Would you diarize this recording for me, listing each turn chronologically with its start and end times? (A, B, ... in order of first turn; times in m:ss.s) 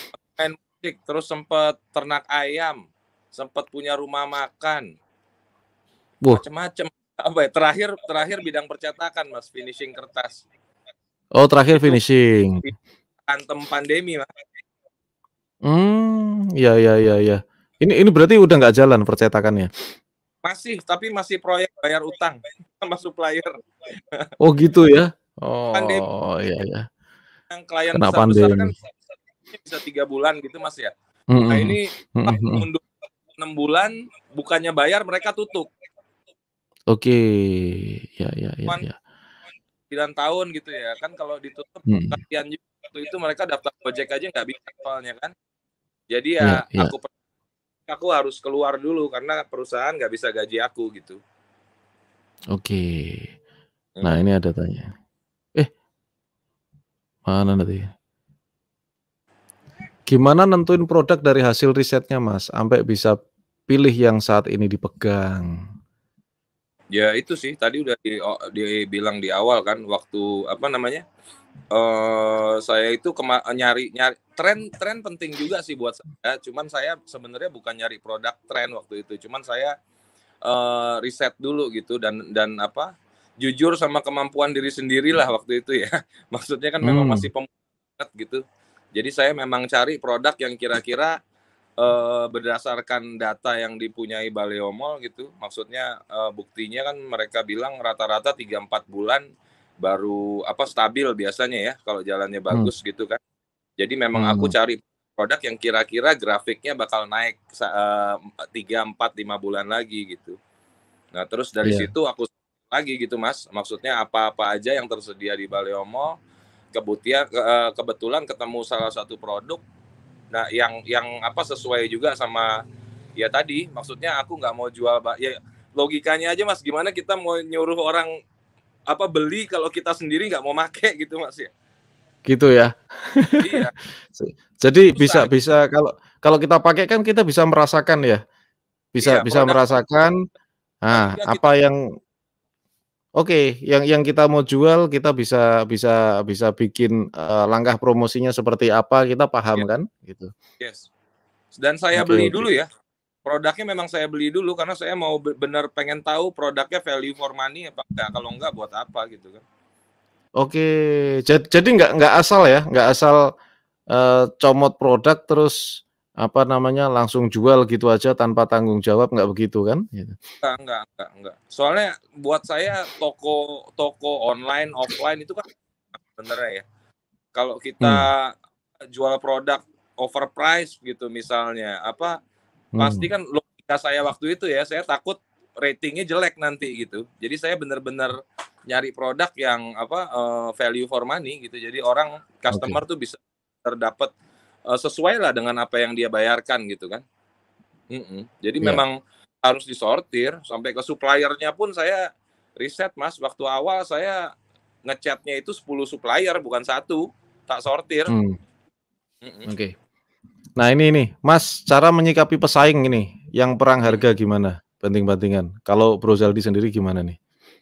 0:00.2-0:04.9 A
0:06.3-0:10.4 A
0:11.4-0:12.6 B
0:11.7-0:12.0 A
0:13.3-0:14.3 A
0:15.6-0:19.7 B
0:20.4-0:24.3 A
0:24.4-0:26.8 B
0:25.7-0:26.0 A
0:27.5-0:28.7 A
0:27.9-0:28.7 B
0:29.5-0:30.9 A
0:31.3-0:32.6 B
0:31.5-0:35.7 A
0:36.9-0:38.9 B
0:39.9-0:45.3 A
0:41.9-0:42.2 B
0:46.1-0:47.1 A
0:46.4-0:46.9 B
0:47.9-0:51.2 A
0:52.5-0:53.3 B
0:54.0-0:54.9 B
0:57.3-0:57.9 B
1:00.1-1:03.2 B
1:03.7-1:05.5 B
1:06.9-1:11.0 A
1:11.7-1:19.7 A
1:20.4-1:28.4 A
1:26.8-1:27.3 B
1:28.9-1:31.2 A
1:31.8-1:39.2 A
1:39.8-1:43.2 A
1:43.8-1:50.4 A
1:44.1-1:44.5 B
1:51.1-1:56.2 A
1:51.6-1:51.9 B
1:56.7-1:59.6 A
2:00.3-2:02.6 A
2:03.2-2:08.1 A
2:08.9-2:11.5 A
2:12.3-2:18.2 B
2:13.4-2:13.7 A
2:14.9-2:15.3 A
2:18.9-2:20.2 B
2:19.0-2:19.8 A
2:20.8-2:21.8 B
2:20.9-2:21.5 A
2:23.2-2:30.3 B
2:30.6-2:30.9 A
2:31.5-2:32.7 A
2:31.9-2:32.4 B
2:33.2-2:39.4 A
2:40.4-2:40.7 B
2:41.2-2:43.2 B
2:43.9-2:45.6 B
2:46.2-2:50.1 B
2:50.4-2:56.6 A
2:57.3-2:58.3 A
2:57.8-2:58.1 B
2:58.9-3:02.2 A
3:02.8-3:03.1 B
3:02.8-3:08.1 A
3:08.7-3:14.1 A
3:12.5-3:12.8 B
3:14.7-3:17.0 A
3:17.9-3:24.3 A
3:24.8-3:28.1 A
3:28.1-3:28.4 B
3:29.2-3:29.5 A
3:29.4-3:29.7 B
3:30.6-3:37.2 B